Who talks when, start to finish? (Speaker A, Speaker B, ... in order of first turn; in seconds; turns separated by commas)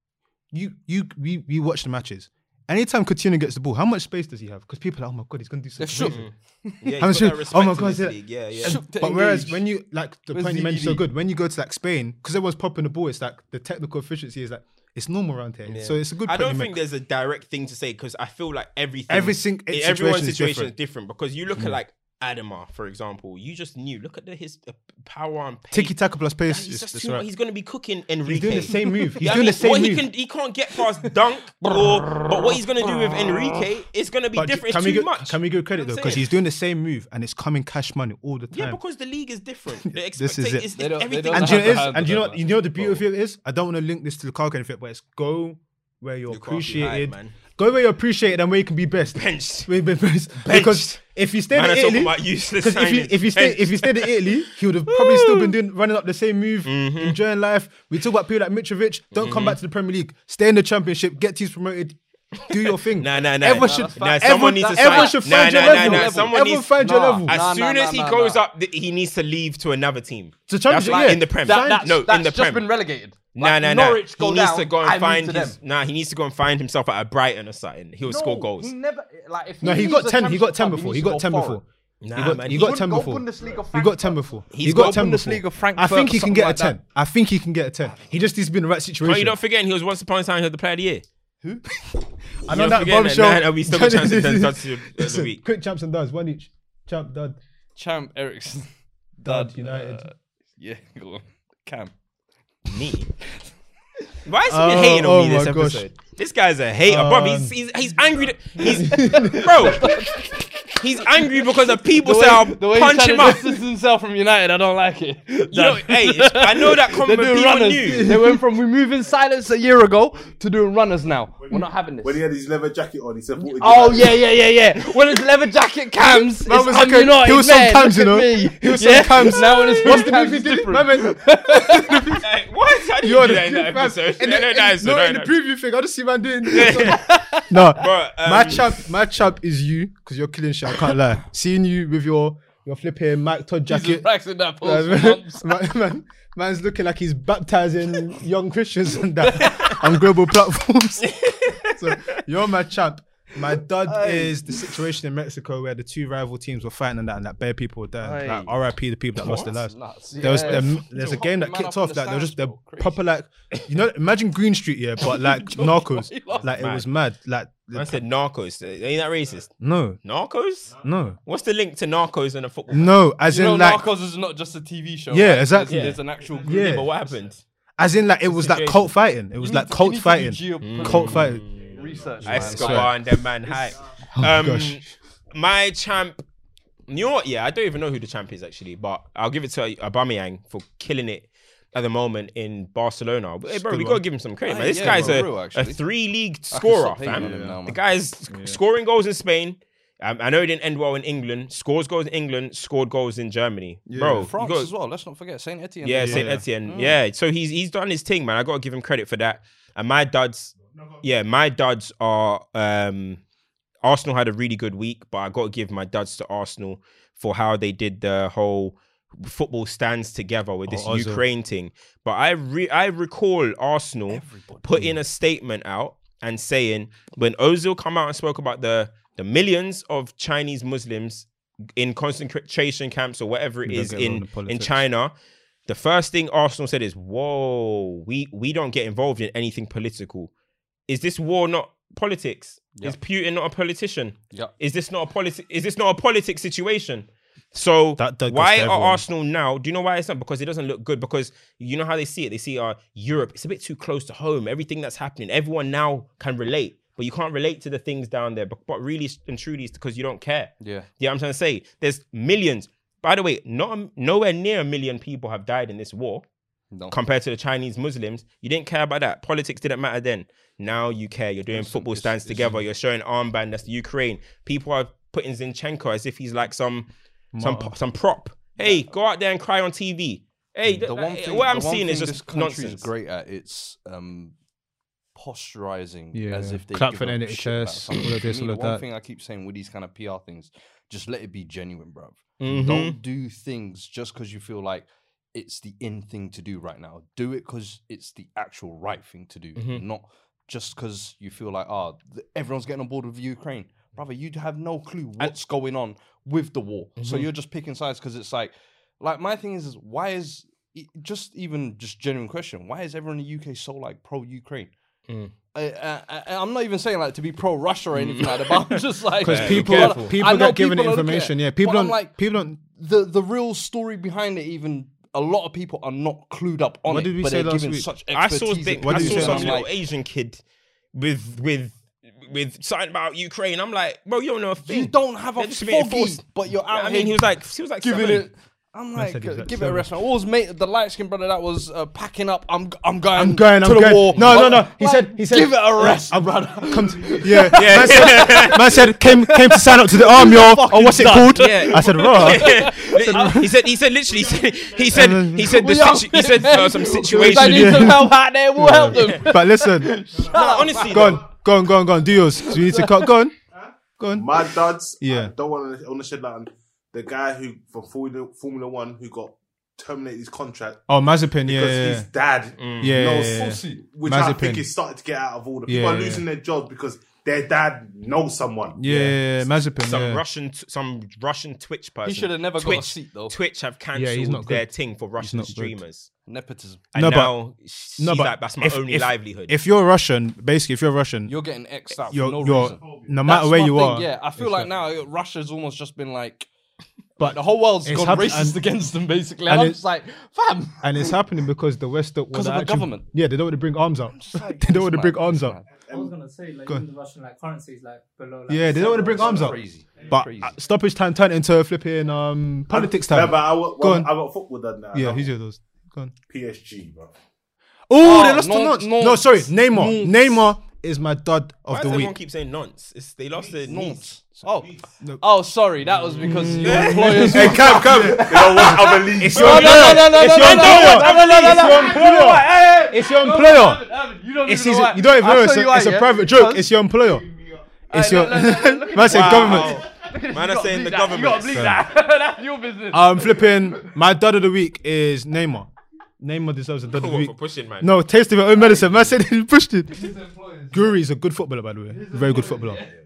Speaker A: 0.5-6.2, Speaker B: 5.8-7.0, Speaker C: 6.0-8.8, Speaker A: 7.0-16.8, Speaker B: 8.6-9.7, Speaker B: 10.3-11.1, Speaker C: 15.7-25.9, Speaker A: 19.1-20.7, Speaker A: 25.7-27.2, Speaker C: 26.5-36.3, Speaker A: 28.2-30.0, Speaker B: 28.6-29.2, Speaker B: 30.8-33.6, Speaker A: 34.3-38.8, Speaker C: 38.5-41.9, Speaker A: 39.8-40.7, Speaker B: 40.7-43.0, Speaker A: 41.3-67.4, Speaker C: 46.3-47.3, Speaker C: 49.1-49.7, Speaker C: 50.4-51.0, Speaker C: 51.5-55.5, Speaker C: 56.6-57.2, Speaker C: 59.1-59.6, Speaker C: 62.9-66.7, Speaker B: 63.4-68.4, Speaker C: 67.2-72.7, Speaker A: 70.5-71.9, Speaker B: 70.8-75.6, Speaker C: 73.3-78.7, Speaker B: 78.0-81.6, Speaker A: 79.6-89.3, Speaker C: 82.0-82.8, Speaker B: 82.5-86.8, Speaker C: 84.5-85.0, Speaker C: 89.0-91.0, Speaker A: 91.8-97.4, Speaker C: 92.5-95.4, Speaker B: 97.8-98.7, Speaker B: 99.2-101.9, Speaker A: 99.2-100.1, Speaker C: 102.7-103.1, Speaker C: 104.2-109.9, Speaker A: 104.5-105.9, Speaker A: 106.9-107.5, Speaker A: 108.6-109.7, Speaker B: 108.6-122.2, Speaker C: 110.8-113.5, Speaker C: 115.5-118.2, Speaker A: 117.8-118.4, Speaker D: 121.6-124.3, Speaker B: 123.4-132.2, Speaker A: 126.0-132.2, Speaker C: 129.4-130.1, Speaker C: 132.2-135.3, Speaker A: 133.0-144.1, Speaker C: 136.5-137.0, Speaker B: 136.5-137.7, Speaker C: 137.8-138.8, Speaker B: 143.7-145.5, Speaker A: 144.6-151.1, Speaker B: 149.2-150.0, Speaker C: 151.2-151.7, Speaker A: 151.6-168.0, Speaker B: 153.8-154.6, Speaker B: 158.0-158.6, Speaker B: 159.2-163.0, Speaker C: 160.3-161.0, Speaker B: 165.0-166.5, Speaker C: 166.3-166.9, Speaker C: 167.7-170.7, Speaker A: 169.6-170.0, Speaker A: 170.8-171.2, Speaker C: 171.2-173.0, Speaker A: 172.7-173.9, Speaker B: 173.3-177.0, Speaker A: 175.1-176.9, Speaker C: 175.6-177.4, Speaker A: 177.8-181.4, Speaker C: 178.3-178.9, Speaker B: 179.4-183.7, Speaker C: 180.6-186.2, Speaker D: 181.9-182.5, Speaker A: 182.2-183.0, Speaker A: 184.1-184.9, Speaker C: 186.9-204.7, Speaker A: 193.5-194.0, Speaker B: 194.4-195.8, Speaker A: 194.7-195.2, Speaker B: 196.5-197.8, Speaker A: 197.1-197.6, Speaker A: 198.3-198.6, Speaker A: 203.9-204.3, Speaker B: 204.1-207.0, Speaker C: 205.8-213.2, Speaker A: 206.0-206.4, Speaker C: 213.8-235.1, Speaker A: 220.7-221.2, Speaker B: 224.1-224.9, Speaker A: 233.6-234.8, Speaker C: 235.7-240.3, Speaker C: 240.9-266.2, Speaker A: 248.0-249.0, Speaker B: 260.6-260.9, Speaker B: 266.7-267.0, Speaker C: 266.9-282.9, Speaker A: 271.5-272.6, Speaker B: 271.6-272.5, Speaker A: 277.3-277.7, Speaker B: 278.6-278.9, Speaker B: 280.8-284.3, Speaker B: 285.1-314.7, Speaker A: 286.1-288.8, Speaker C: 292.4-292.9, Speaker C: 299.6-299.8, Speaker C: 307.0-307.3, Speaker C: 315.1-315.3, Speaker B: 315.5-329.7, Speaker C: 317.9-320.1, Speaker A: 319.2-322.6, Speaker A: 326.9-327.9, Speaker C: 328.1-330.4, Speaker A: 328.8-329.6, Speaker C: 330.9-338.3, Speaker B: 334.6-337.3, Speaker B: 337.8-353.5, Speaker A: 338.9-339.9, Speaker A: 343.1-353.5, Speaker C: 344.1-344.4, Speaker C: 347.6-348.7, Speaker C: 351.3-358.0, Speaker A: 354.9-355.6, Speaker B: 355.0-361.2, Speaker A: 357.1-359.9, Speaker C: 358.9-359.2, Speaker C: 360.3-361.2, Speaker A: 360.9-363.3, Speaker B: 362.4-363.1, Speaker A: 364.0-364.4, Speaker D: 364.1-370.8, Speaker A: 365.0-365.3, Speaker A: 370.9-372.1, Speaker D: 371.4-379.1, Speaker C: 372.6-372.9, Speaker A: 372.8-374.7, Speaker B: 373.3-373.8, Speaker A: 375.6-376.2, Speaker A: 378.8-380.2, Speaker C: 379.8-386.1, Speaker B: 382.0-383.4, Speaker A: 383.9-384.6, Speaker A: 385.2-385.8, Speaker B: 386.2-386.8, Speaker C: 386.9-389.5, Speaker A: 386.9-387.4, Speaker A: 388.0-391.3, Speaker B: 391.2-396.5, Speaker A: 392.1-394.7, Speaker D: 392.2-393.2, Speaker A: 397.2-398.6, Speaker B: 397.2-401.2, Speaker A: 399.5-399.8, Speaker A: 400.8-405.6, Speaker B: 402.3-403.1, Speaker B: 404.1-405.7, Speaker D: 405.7-406.1, Speaker E: 405.9-409.5, Speaker A: 408.5-414.1, Speaker B: 408.8-410.5, Speaker D: 409.3-410.0, Speaker D: 412.7-415.3, Speaker A: 414.9-416.1, Speaker D: 416.3-417.1, Speaker A: 417.9-422.1, Speaker B: 418.0-420.4, Speaker C: 421.7-424.0, Speaker B: 423.6-436.7, Speaker D: 424.5-424.8, Speaker C: 425.8-427.4, Speaker A: 426.2-433.8, Speaker D: 427.2-429.8, Speaker C: 429.3-432.0, Speaker A: 434.4-437.2, Speaker B: 437.9-443.9, Speaker A: 437.9-439.8, Speaker C: 439.0-441.8, Speaker A: 441.4-441.8, Speaker A: 442.9-450.1, Speaker C: 446.9-447.9, Speaker B: 449.9-451.0, Speaker A: 450.7-452.8, Speaker B: 451.9-452.9